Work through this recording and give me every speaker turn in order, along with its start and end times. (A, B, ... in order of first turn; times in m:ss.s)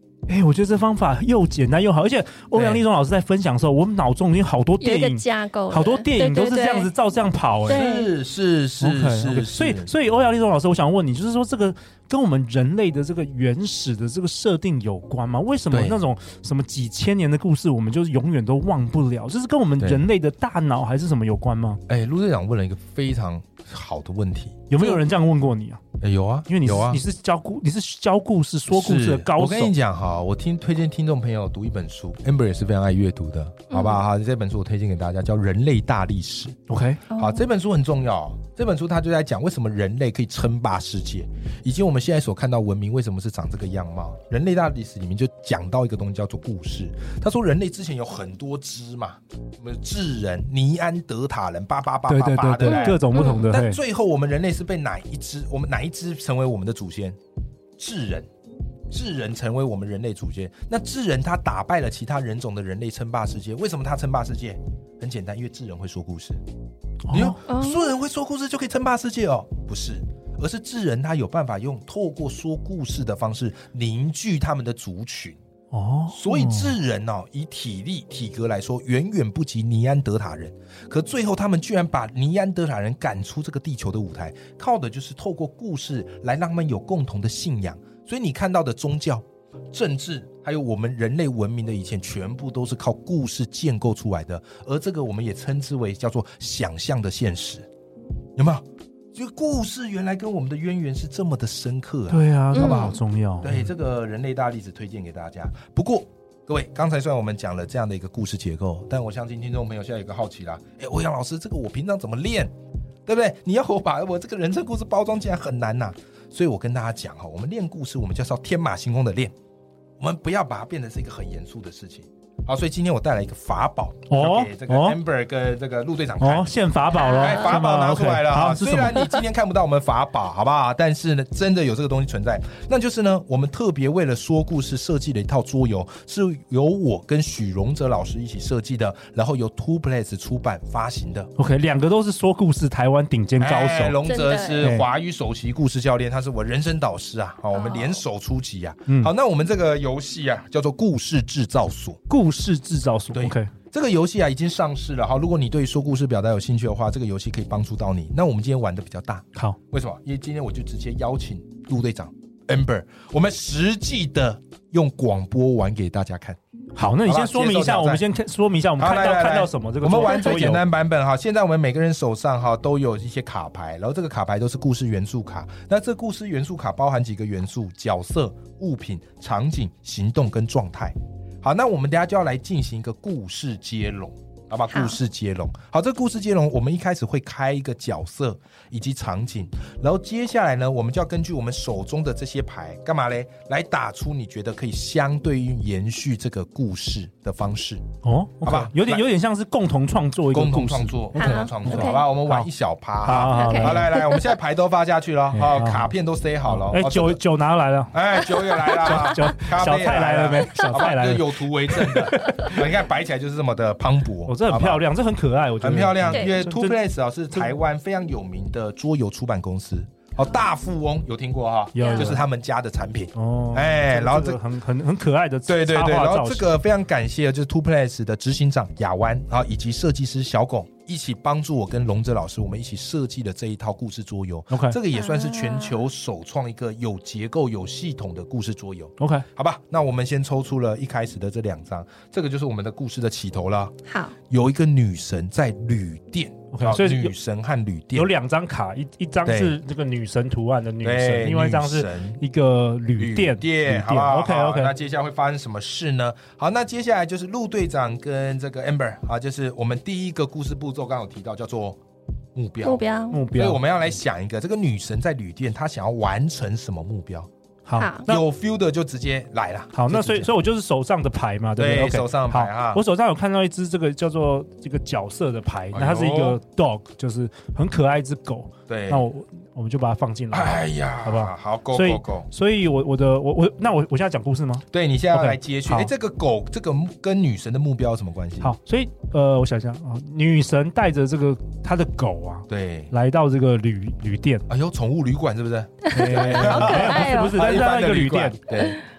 0:00.3-0:07.8 A
0:02.5-0:02.8 B
0:04.8-0:06.9 C
0:07.7-0:08.1 C
0:07.7-0:09.9 B
0:08.8-0:21.8 A
0:15.7-0:16.0 B
0:21.9-0:24.6 B
0:24.7-0:25.8 A
0:26.0-0:27.0 B
0:26.5-0:29.7 A
0:28.7-0:36.6 B
0:33.7-0:34.0 C
0:36.7-0:37.0 A
0:37.1-0:37.5 C
0:37.1-0:57.2 B
0:52.1-0:53.8 A
0:52.6-0:53.4 C
0:57.8-0:58.3 B
0:58.9-1:06.4 B
1:07.1-1:07.4 A
1:07.1-1:15.4 B
1:07.5-1:07.9 C
1:15.7-1:16.7 A
1:16.1-1:37.7 B
1:38.4-1:52.5 B
1:42.1-1:43.7 A
1:42.5-1:43.0 C
1:53.1-1:59.3 B
2:00.0-2:06.5 B
2:04.1-2:05.0 A
2:06.2-2:09.1 A
2:07.0-2:07.6 C
2:07.1-2:21.3 B
2:21.4-2:24.0 A
2:23.4-2:32.0 B
2:24.1-2:24.8 C
2:24.6-2:24.9 A
2:27.5-2:28.0 C
2:32.1-2:33.5 A
2:33.1-2:46.4 B
2:46.8-2:50.6 A
2:47.0-2:48.0 B
2:48.8-3:17.8 B
3:04.7-3:05.0 C
3:18.0-3:22.5 A
3:18.4-3:19.0 B
3:20.3-3:27.2 B
3:21.2-3:22.0 C
3:23.0-3:23.9 A
3:23.3-3:24.3 C
3:25.3-3:25.9 A
3:26.5-3:28.0 A
3:27.9-3:34.8 B
3:28.6-3:32.5 A
3:28.7-3:29.2 C
3:34.3-3:36.8 A
3:35.6-3:44.4 B
3:36.1-3:36.5 C
3:41.8-3:42.2 A
3:41.8-3:42.2 C
3:43.2-3:46.5 A
3:45.5-4:03.7 B
3:54.5-3:54.8 A
3:54.9-3:55.8 C
3:59.0-3:59.3 A
4:03.9-4:04.2 C
4:04.3-4:08.1 B
4:06.5-4:07.2 A
4:07.9-4:14.7 A
4:09.2-4:09.6 B
4:10.8-4:12.2 B
4:13.0-4:21.8 B
4:22.3-4:27.3 B
4:22.6-4:23.2 C
4:23.1-4:23.6 A
4:27.6-4:28.2 A
4:27.8-4:28.1 C
4:28.1-4:30.3 B
4:29.7-4:45.9 A
4:31.6-4:32.8 B
4:35.7-4:36.4 B
4:38.7-4:39.1 B
4:40.3-4:42.3 B
4:44.7-4:48.5 B
4:48.4-4:54.4 A
4:52.5-4:52.9 B
4:54.5-4:58.8 B
4:55.9-4:57.4 C
4:55.9-4:58.4 A